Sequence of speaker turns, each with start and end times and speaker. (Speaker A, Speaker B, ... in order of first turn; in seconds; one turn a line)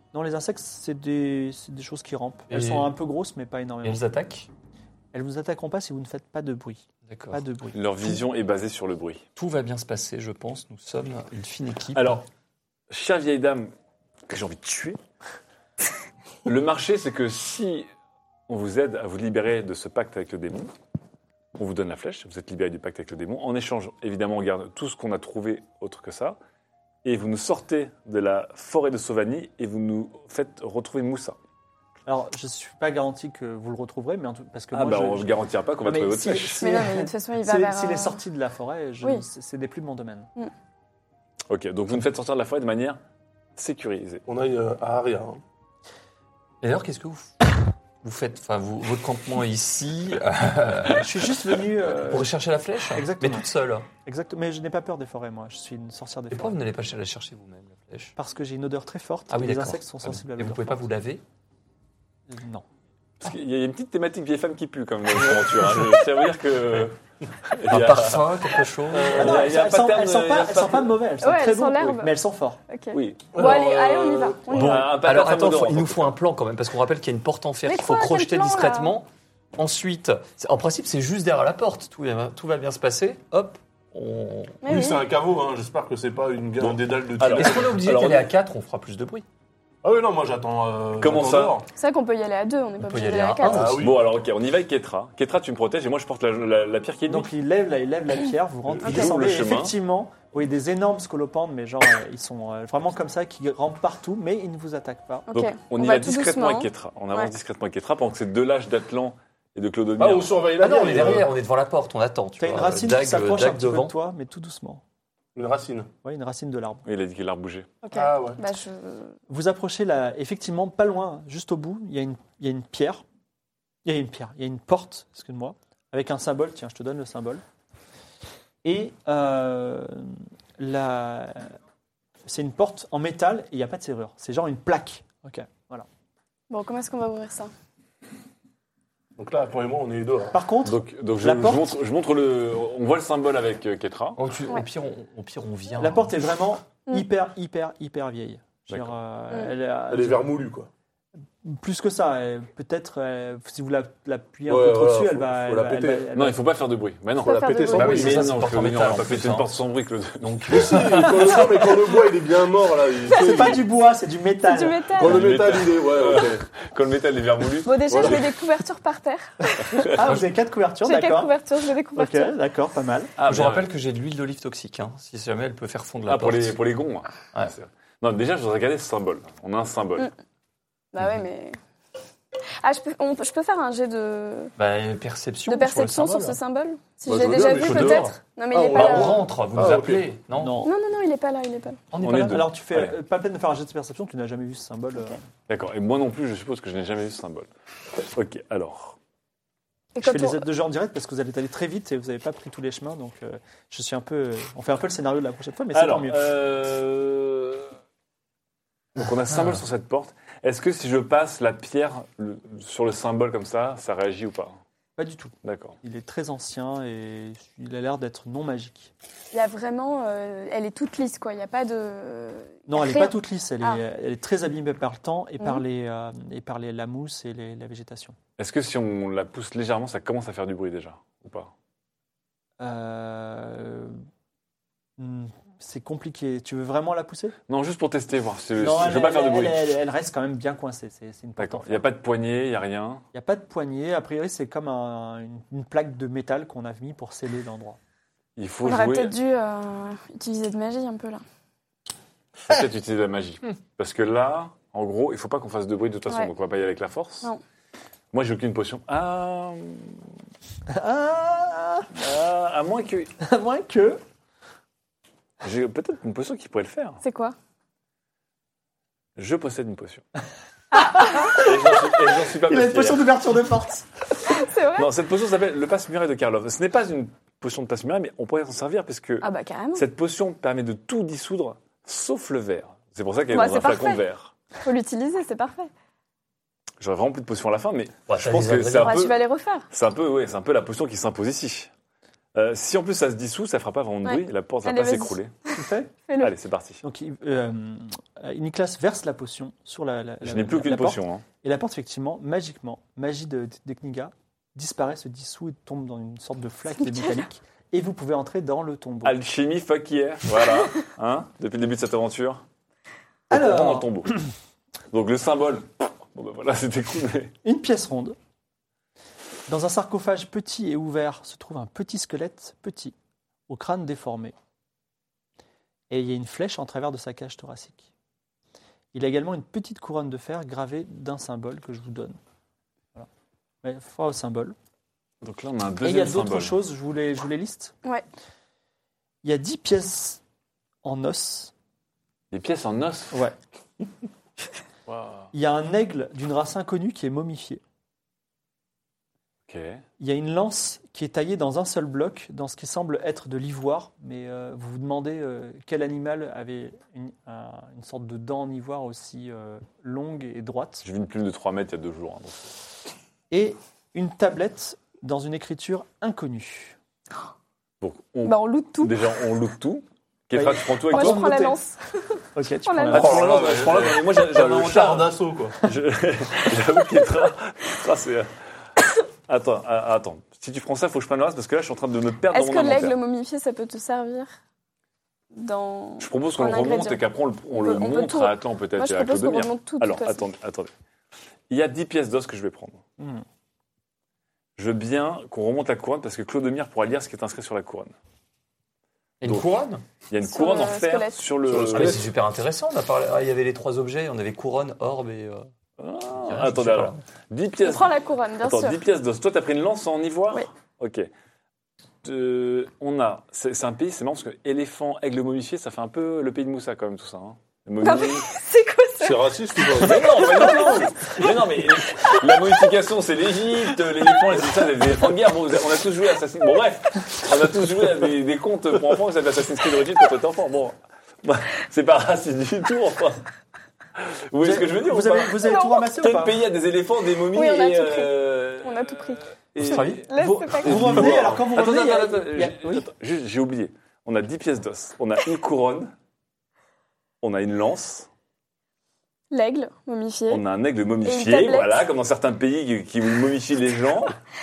Speaker A: 0.1-4.0
Speaker B: 2.5-2.9
Speaker B: 3.8-4.5
Speaker A: 5.1-8.2
Speaker B: 7.0-7.4
Speaker C: 7.7-9.2
Speaker B: 9.3-12.2
Speaker C: 11.9-12.2
Speaker C: 12.9-13.7
Speaker C: 14.3-15.0
Speaker C: 16.4-17.9
Speaker C: 18.5-20.7
Speaker C: 21.6-26.4
Speaker C: 27.0-31.4
Speaker A: 32.0-35.3
Speaker C: 34.7-36.7
Speaker A: 35.8-40.3
Speaker D: 36.6-38.2
Speaker C: 41.5-43.0
Speaker C: 43.6-44.2
Speaker E: 44.3-45.4
Speaker B: 46.6-47.5
Speaker B: 48.0-51.1
Speaker A: 51.0-52.3
Speaker B: 52.1-53.9
Speaker A: 52.9-53.5
Speaker A: 54.0-56.6
Speaker B: 56.3-58.1
Speaker A: 58.1-60.9
Speaker B: 59.3-61.2
Speaker A: 62.3-62.6
Speaker C: 63.2-71.0
Speaker B: 67.7-69.5
Speaker A: 69.1-72.6
Speaker D: 71.2-72.1
Speaker D: 72.7-74.8
Speaker C: 72.9-73.5
Speaker E: 73.3-74.7
Speaker B: 74.5-84.6
Speaker C: 74.6-76.1
Speaker D: 77.6-79.0
Speaker D: 84.6-85.0
Speaker E: 84.7-87.8
Speaker C: 86.6-88.3
Speaker B: 87.3-89.2
Speaker E: 89.8-91.7
Speaker C: 91.0-91.6
Speaker D: 91.7-93.8
Speaker B: 92.8-93.8
Speaker E: 93.5-94.0
Speaker C: 93.6-97.3
Speaker A: 97.1-105.2
Speaker C: 98.8-99.7
Speaker D: 98.8-99.1
Speaker D: 105.3-107.3
Speaker C: 105.3-110.5
Speaker E: 110.0-111.3
Speaker B: 110.6-114.0
Speaker A: 112.4-114.8
Speaker E: 115.3-115.9
Speaker A: 116.0-116.8
Speaker C: 116.8-117.7
Speaker D: 117.8-119.2
Speaker E: 117.9-118.4
Speaker A: 119.3-123.0
Speaker A: 123.8-127.4
Speaker A: 128.6-131.5
Speaker A: 132.3-135.9
Speaker D: 136.5-137.5
Speaker E: 139.2-140.3
Speaker A: 140.3-141.8
Speaker C: 140.6-144.2
Speaker B: 144.2-146.1
Speaker A: 145.8-150.2
Speaker C: 148.7-148.9
Speaker E: 149.9-150.7
Speaker A: 151.4-156.4
Speaker E: 154.5-156.1
Speaker C: 156.1-160.8
Speaker D: 157.2-158.1
Speaker E: 157.2-158.3
Speaker B: 157.7-159.4
Speaker B: 160.2-161.4
Speaker E: 160.5-163.6
Speaker D: 163.1-163.6
Speaker A: 163.2-164.8
Speaker D: 164.4-165.3
Speaker E: 164.9-166.4
Speaker C: 165.0-168.3
Speaker D: 167.6-169.3
Speaker E: 167.9-168.2
Speaker A: 169.8-171.3
Speaker D: 170.8-172.3
Speaker A: 171.9-173.1
Speaker C: 173.2-173.7
Speaker B: 173.2-176.6
Speaker C: 176.1-180.1
Speaker D: 180.9-181.6
Speaker D: 182.6-184.5
Speaker B: 184.6-186.4
Speaker D: 185.5-189.2
Speaker E: 187.0-190.1
Speaker C: 187.6-188.0
Speaker B: 187.7-188.1
Speaker B: 188.7-190.6
Speaker A: 190.3-190.7
Speaker D: 190.6-191.8
Speaker B: 191.9-192.4
Speaker C: 192.0-192.9
Speaker A: 192.0-195.2
Speaker C: 195.5-197.5
Speaker C: 198.1-199.0
Speaker D: 199.9-200.4
Speaker A: 200.0-206.2
Speaker C: 205.7-207.7
Speaker C: 208.9-214.6
Speaker B: 209.3-209.6
Speaker A: 215.0-218.9
Speaker C: 215.4-215.8
Speaker D: 219.3-223.8
Speaker A: 222.7-228.2
Speaker C: 228.4-231.5
Speaker A: 232.6-234.0
Speaker A: 235.0-237.3
Speaker C: 237.5-239.8
Speaker A: 238.6-241.8
Speaker C: 241.4-243.0
Speaker A: 243.1-247.8
Speaker C: 248.4-249.1
Speaker D: 248.6-251.2
Speaker C: 252.4-257.3
Speaker C: 258.1-260.0
Speaker A: 260.7-261.9
Speaker C: 261.9-263.1
Speaker A: 263.2-264.0
Speaker C: 265.4-267.0
Speaker D: 267.0-267.3
Speaker C: 269.2-270.0
Speaker D: 270.7-271.3
Speaker A: 270.8-273.9
Speaker C: 271.3-273.1
Speaker D: 274.3-274.9
Speaker C: 274.8-284.3
Speaker D: 279.2-279.8
Speaker D: 283.3-284.0
Speaker D: 284.6-285.7
Speaker C: 286.8-289.2
Speaker B: 288.1-289.0
Speaker D: 288.8-289.6
Speaker C: 289.7-291.7
Speaker C: 292.3-295.3
Speaker D: 294.0-296.3
Speaker A: 295.5-295.9
Speaker C: 296.2-296.8
Speaker A: 296.8-309.1
Speaker C: 300.2-301.2
Speaker C: 309.0-312.4
Speaker C: 313.3-314.2
Speaker A: 313.3-313.9
Speaker C: 314.9-317.3
Speaker A: 317.4-318.1
Speaker A: 319.5-322.9
Speaker A: 323.5-324.3
Speaker A: 325.9-327.9
Speaker A: 328.9-332.2
Speaker A: 333.6-334.6
Speaker C: 335.2-336.6
Speaker A: 335.8-337.7
Speaker A: 339.2-340.2
Speaker A: 340.8-341.5
Speaker C: 342.3-343.2
Speaker C: 344.9-345.3
Speaker A: 345.3-347.6
Speaker C: 349.5-349.8
Speaker A: 350.0-360.8
Speaker C: 360.8-362.5
Speaker A: 363.3-366.8
Speaker C: 367.8-371.2
Speaker D: 368.2-368.9
Speaker A: 370.3-371.6
Speaker D: 370.9-373.2
Speaker A: 372.3-373.2
Speaker C: 372.9-375.1
Speaker E: 372.9-375.6
Speaker C: 375.6-378.3
Speaker C: 379.3-383.0
Speaker D: 382.3-384.3
Speaker D: 385.3-390.3
Speaker C: 386.0-390.7
Speaker C: 391.5-392.8
Speaker A: 393.0-393.2
Speaker C: 394.6-397.9
Speaker B: 399.2-399.8
Speaker C: 400.1-402.0
Speaker D: 400.2-401.3
Speaker E: 401.4-402.0
Speaker B: 401.7-405.5
Speaker C: 405.8-407.9
Speaker B: 406.1-407.0
Speaker D: 407.6-408.8
Speaker C: 408.4-411.1
Speaker C: 412.0-418.3
Speaker D: 417.8-422.4
Speaker E: 419.0-420.5
Speaker C: 419.8-433.2
Speaker C: 434.0-440.1
Speaker A: 434.4-436.4
Speaker D: 435.4-435.9
Speaker D: 437.3-439.4
Speaker A: 439.6-442.8
Speaker B: 439.6-440.0
Speaker D: 440.1-441.1
Speaker E: 440.6-441.5
Speaker C: 441.0-445.9
Speaker C: 447.2-448.1
Speaker D: 449.3-450.4
Speaker C: 450.3-454.1
Speaker D: 451.0-451.7